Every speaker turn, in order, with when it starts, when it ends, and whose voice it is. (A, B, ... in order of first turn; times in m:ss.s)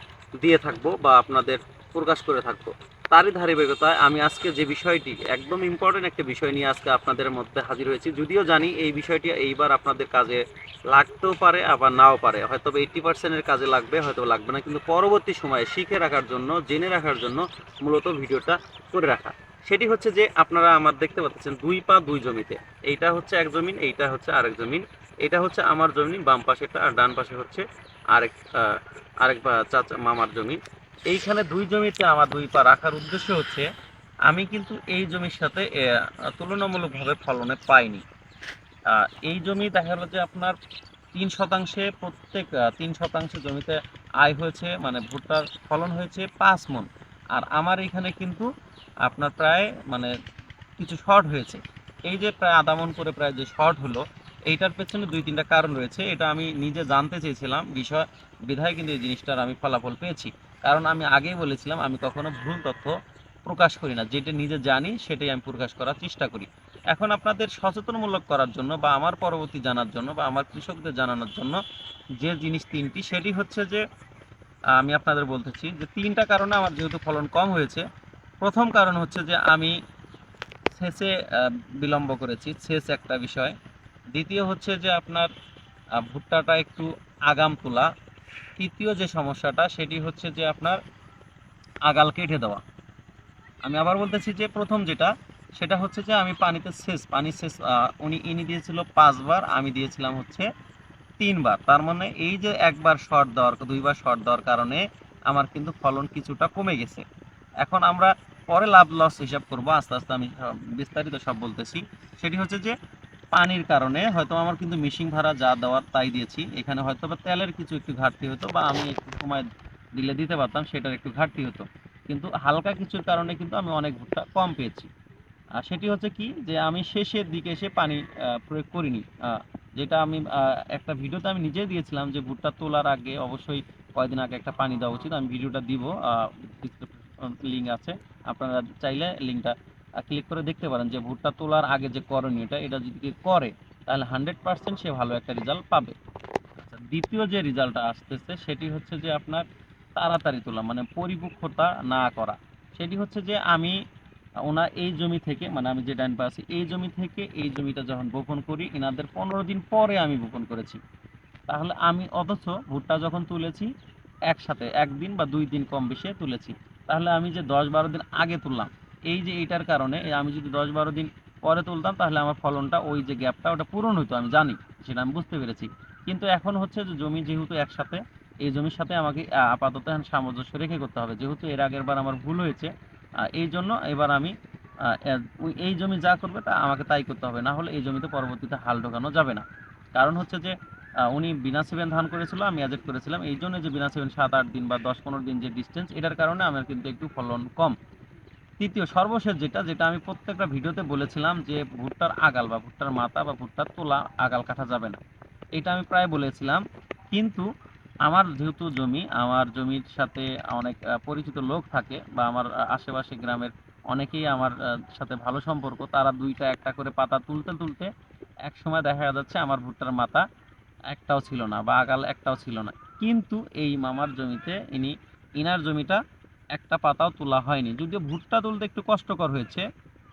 0:00.4-0:33.7 A
0:34.3-0:38.0 A
0:38.9-0:40.6 A
0:41.1-0:48.5 A
0:49.0-0:50.1 A
0:50.8-1:11.6 A
1:12.2-1:13.8 A
1:14.8-1:17.8 A
1:18.4-1:19.8 A
1:20.7-1:23.6 A
1:24.1-1:25.3 A
1:26.0-1:27.9 A
1:28.6-1:30.8 A
1:31.8-1:32.6 A
1:33.6-1:40.5 A
1:41.2-1:47.0 A
1:47.6-1:52.8 A
1:53.3-2:04.9 A
2:05.6-2:26.0 A
2:26.6-2:29.4 A
2:30.0-2:33.8 A
2:34.4-2:40.8 A
2:41.5-2:43.7 A
2:44.3-3:02.7 A
3:03.2-3:04.3 A
3:04.8-3:10.5 A
3:11.1-3:17.8 A
3:18.6-3:25.0 A
3:25.6-3:27.5 A
3:28.0-3:37.9 A
3:38.4-3:40.2 A
3:40.9-3:46.0 A
3:46.5-3:49.7 A